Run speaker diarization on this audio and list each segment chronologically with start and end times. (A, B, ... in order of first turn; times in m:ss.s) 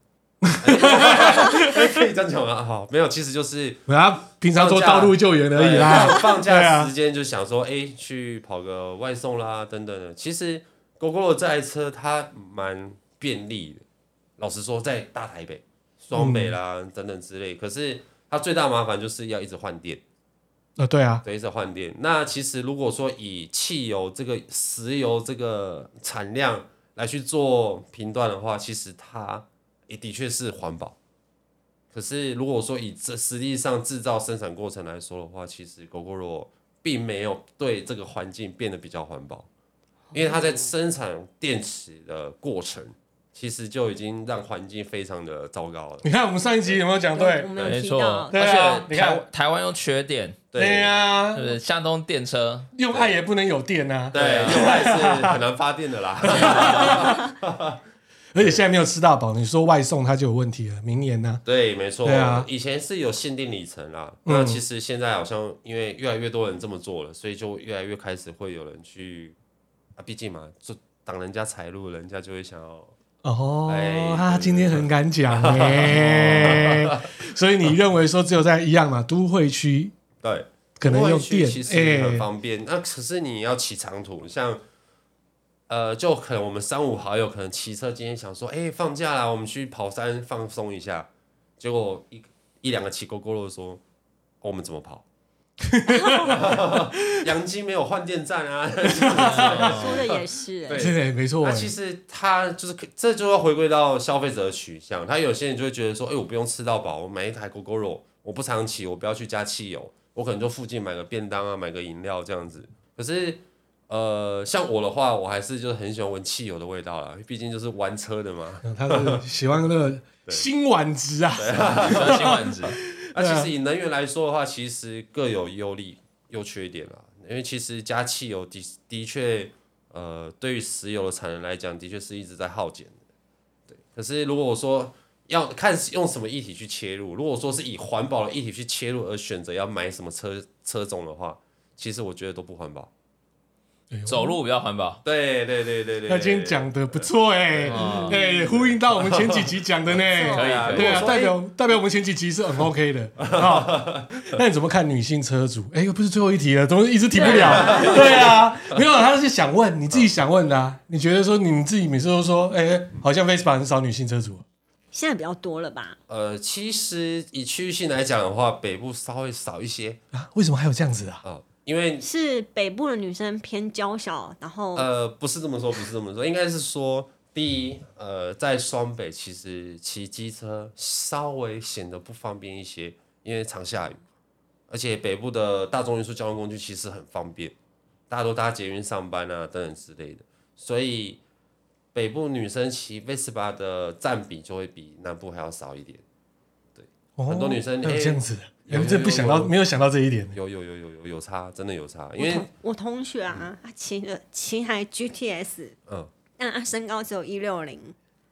0:00.4-0:01.8 A
0:00.6-0:03.9 B
0:03.9-0:06.9 A
0:04.4-0:13.8 B
0:14.4-0:20.0 B
0:16.1-0:16.5 A
0:20.8-0:21.2 A
0:21.2-0:31.0 B
0:31.9-0:39.5 B
0:40.1-0:40.7 C
0:40.1-0:46.1 B
0:46.0-0:47.5 A
0:47.1-0:48.4 C
0:47.5-0:47.8 B
0:47.6-0:50.4 D
0:48.3-0:49.2 A
0:50.5-0:51.2 B
0:50.5-0:51.5 A
0:51.3-0:52.7 D
0:52.7-0:55.4 A
0:52.9-0:53.2 B
0:54.1-0:57.8 B
0:54.1-0:54.8 D
0:56.2-0:57.3 A
0:56.3-0:57.0 D
0:58.3-1:01.4 A
1:01.4-1:09.4 B
1:02.0-1:02.5 A
1:04.2-1:04.6 A
1:10.0-1:12.9 B
1:13.2-1:19.9 A
1:13.7-1:17.0 B
1:16.0-1:16.5 D
1:20.2-1:24.6 B
1:20.8-1:22.3 A
1:25.7-1:31.1 B
1:31.6-1:33.8 B
1:34.4-1:35.0 B
1:35.6-1:37.2 A
1:36.2-1:59.2 B
1:38.9-1:39.6 A
1:39.3-1:40.0 D
1:39.4-1:40.9 C
1:40.7-1:41.7 A
1:58.6-2:03.5 A
2:01.4-2:02.5 B
2:01.8-2:02.8 D
2:03.1-2:13.0 B
2:13.7-2:22.9 B
2:23.9-2:24.4 A
2:24.0-2:25.0 D
2:25.0-2:31.4 B
2:26.1-2:44.4 A
2:27.7-2:28.2 D
2:27.8-2:28.2 C
2:30.0-2:31.0 C
2:30.3-2:31.0 D
2:33.2-2:34.2 B
2:37.1-2:38.3 C
2:37.2-2:38.8 B
2:44.9-2:46.0 C
2:46.1-2:50.0 B
2:50.1-2:51.2 A
2:51.2-2:52.1 B
2:52.0-2:54.9 C
2:54.7-3:04.0 B
3:04.7-3:07.5 B
3:08.1-3:11.2 B
3:11.9-3:16.0 B
3:16.7-3:19.5 B
3:17.2-3:20.4 A
3:20.3-3:22.5 B
3:22.2-3:25.8 C
3:26.4-3:27.9 C